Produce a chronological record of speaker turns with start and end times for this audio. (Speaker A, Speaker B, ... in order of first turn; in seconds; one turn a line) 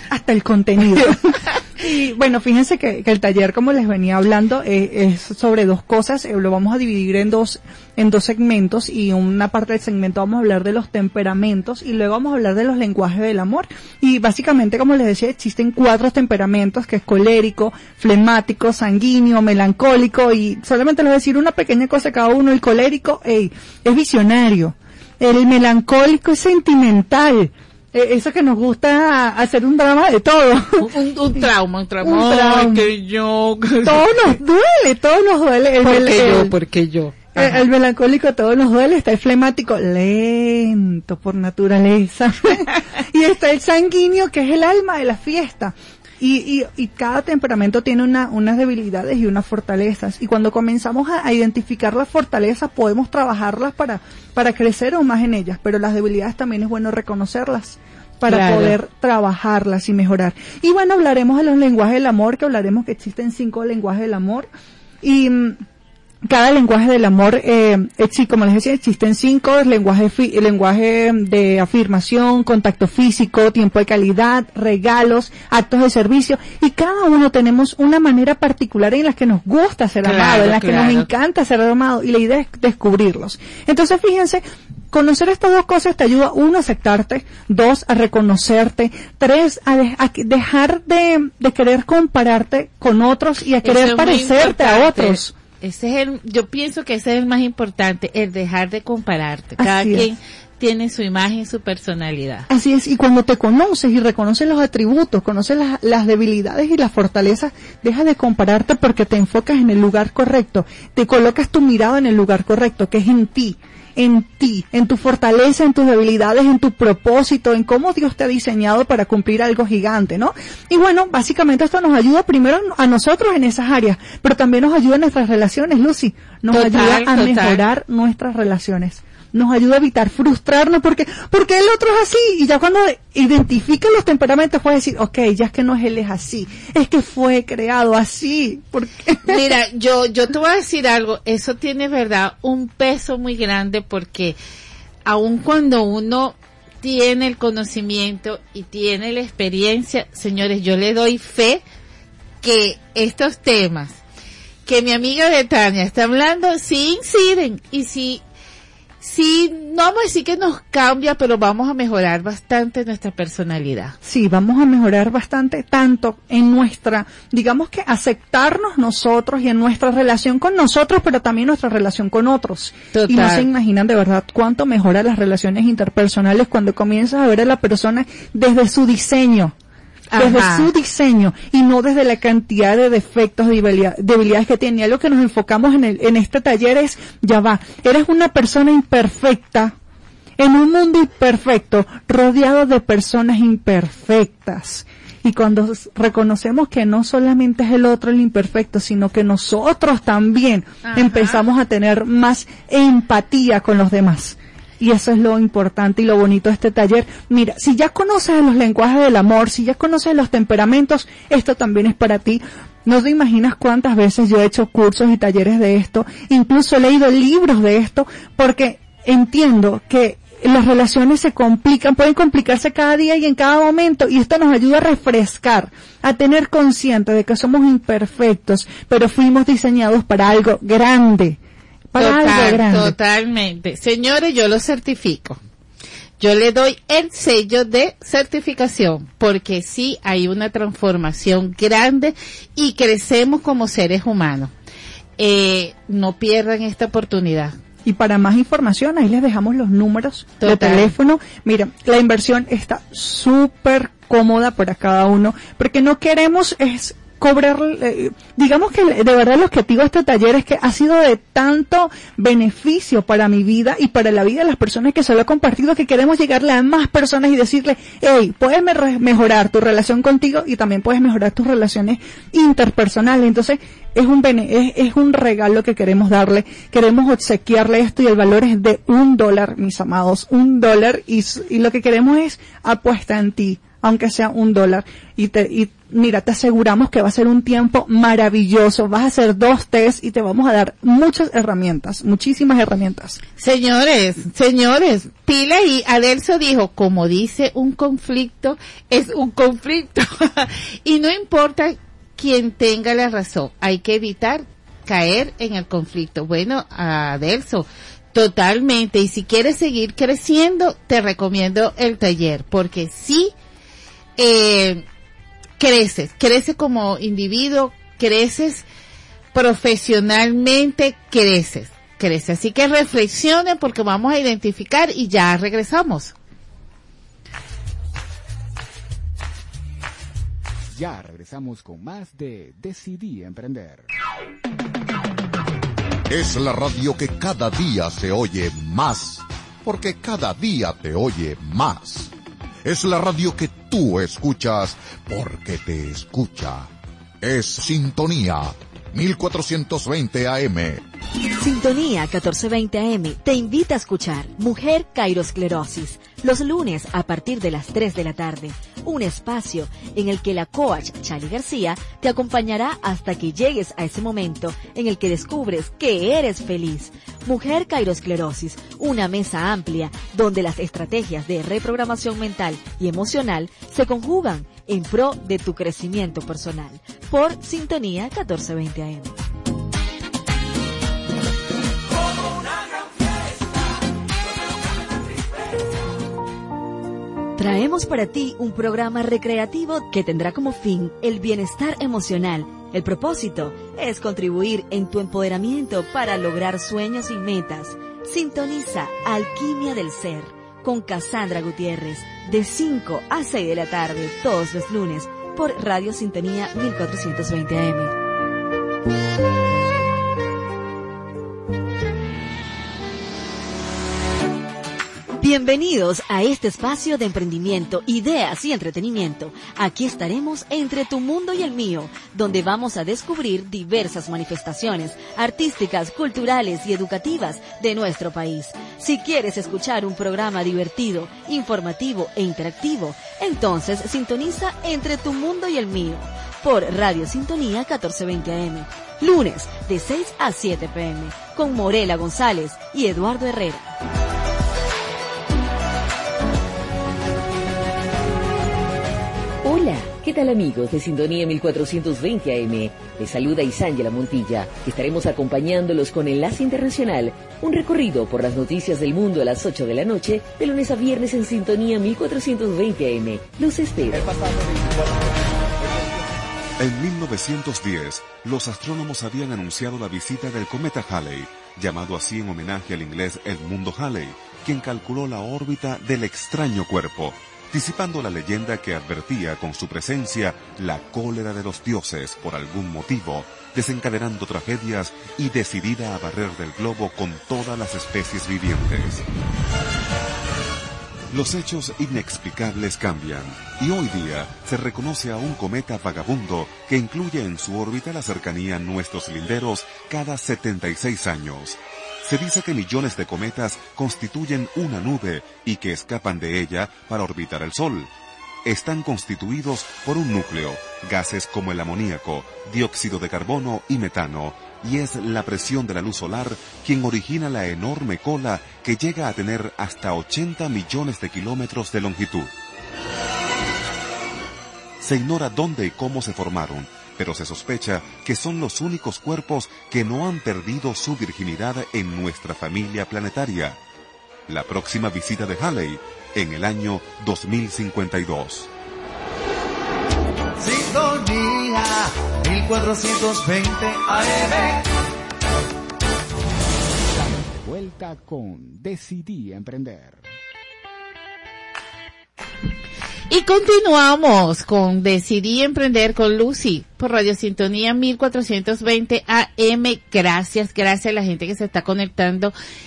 Speaker A: 0.1-30.9
Speaker B: 30.8-34.3
Speaker A: 32.0-32.9
Speaker A: 33.9-36.5
Speaker B: 35.8-37.6
Speaker A: 37.4-64.5
Speaker B: 58.3-58.8
Speaker A: 65.0-65.6
Speaker A: 66.3-95.3
Speaker B: 80.0-81.1
Speaker B: 93.6-102.5
Speaker A: 99.6-100.1
Speaker A: 102.5-139.5
Speaker B: 126.5-127.6
Speaker B: 139.3-144.4
Speaker B: 145.1-151.6
Speaker B: 152.4-154.0
Speaker B: 154.7-158.2
Speaker B: 159.0-164.0
Speaker A: 164.0-179.5
Speaker B: 172.9-173.5
Speaker B: 180.1-180.7
Speaker A: 180.2-189.8
Speaker A: 190.4-231.4
Speaker B: 200.8-201.4
Speaker A: 231.9-232.9
Speaker B: 232.0-235.4
Speaker B: 236.2-244.5
Speaker B: 245.2-247.6
Speaker A: 247.8-293.2
Speaker B: 250.4-250.9
Speaker B: 293.4-313.4
Speaker B: 314.2-314.9
Speaker B: 315.6-318.7
Speaker B: 319.3-326.1
Speaker C: 330.7-333.9
Speaker D: 336.1-342.1
Speaker D: 342.6-346.7
Speaker D: 347.2-350.8
Speaker E: 351.4-379.1
Speaker E: 387.4-407.9
Speaker E: 415.2-443.7
Speaker F: 449.4-464.1
Speaker G: 466.6-489.0
Speaker G: 491.1-507.9
Speaker G: 508.4-522.3
Speaker G: 524.8-533.6
Speaker G: 534.3-538.5
Speaker H: 540.4-544.6
Speaker C: 546.9-550.1
Speaker B: 553.1-562.3